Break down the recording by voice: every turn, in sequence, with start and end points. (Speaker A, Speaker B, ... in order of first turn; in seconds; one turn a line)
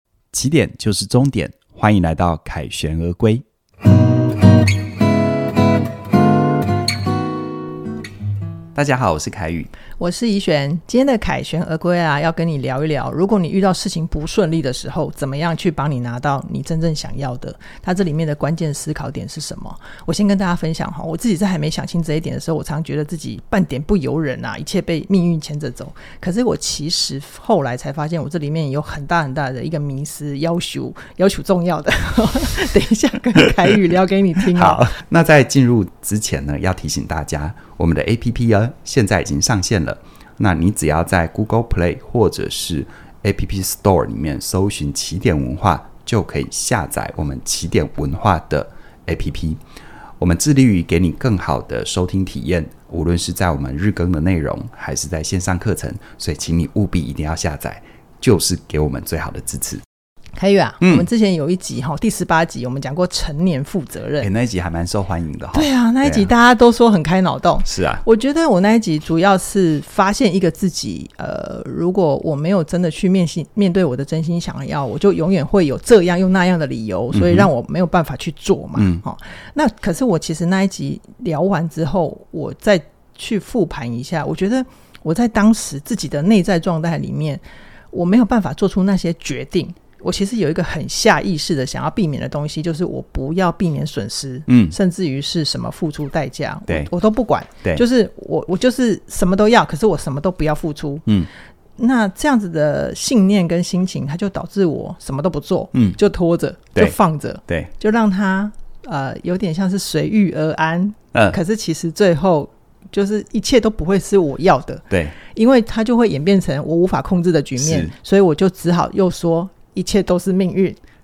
Speaker A: 0.3-3.4
Speaker A: 8.7-9.7
Speaker B: 10.0-35.0
Speaker A: 34.4-49.6
Speaker A: 50.2-59.8
Speaker B: 60.4-64.3
Speaker A: 60.8-61.1
Speaker A: 64.2-66.3
Speaker B: 65.5-101.1
Speaker A: 67.6-68.0
Speaker A: 77.1-77.5
Speaker A: 78.8-79.0
Speaker A: 94.5-94.7
Speaker B: 101.8-120.8
Speaker A: 114.9-115.1
Speaker A: 117.6-117.9